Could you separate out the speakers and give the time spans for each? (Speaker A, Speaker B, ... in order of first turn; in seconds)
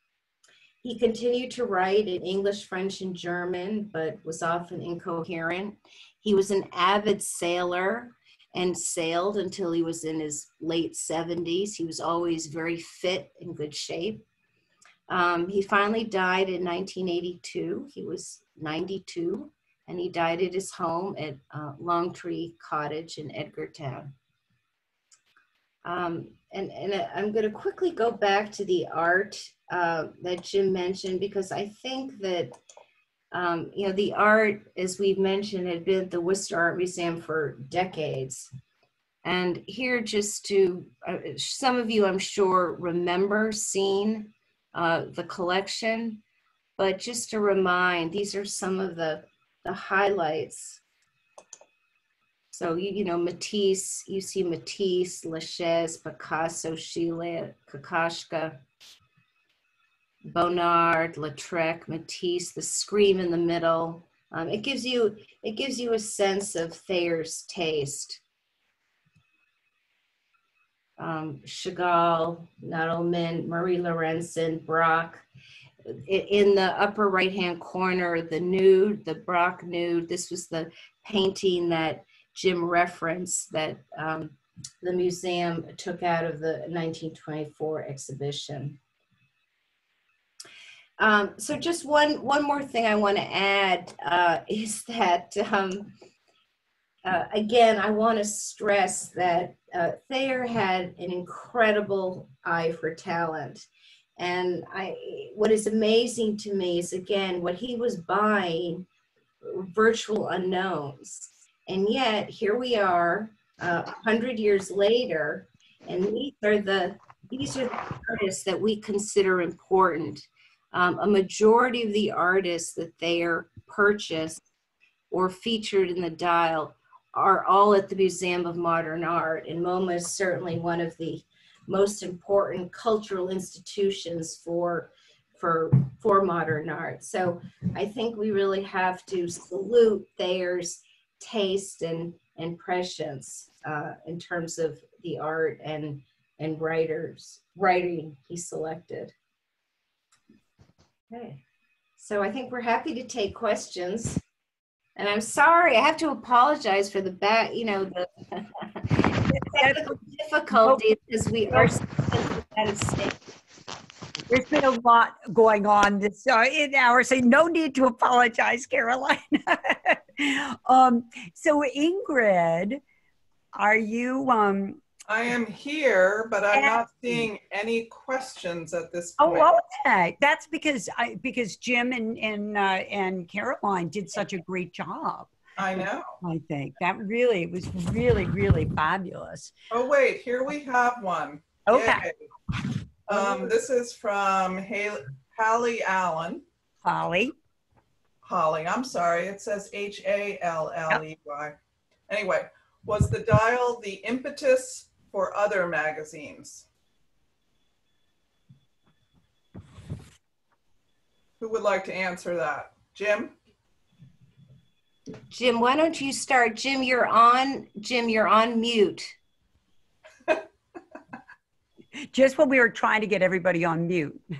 Speaker A: 0.8-14.2, 15.1-24.1, 25.8-32.6, 33.3-38.5, 39.2-46.2, 46.8-50.8, 52.5-58.6, 60.2-68.2, 71.0-75.2, 75.8-88.8, 91.0-95.9, 97.0-103.7, 104.2-108.8, 109.4-124.4, 125.1-149.1, 151.1-151.4, 152.0-154.2, 154.9-163.2, 215.3-219.2
Speaker B: 159.3-159.9, 160.5-160.8, 164.3-172.8, 173.5-174.8, 176.5-177.3, 179.2-185.3, 186.2-189.5, 191.7-192.1, 193.1-193.5, 196.8-197.3, 222.1-224.2
Speaker C: 175.1-179.5, 185.6-186.2, 189.7-192.2, 193.1-196.4, 198.2-201.6, 202.1-206.7, 211.4-213.3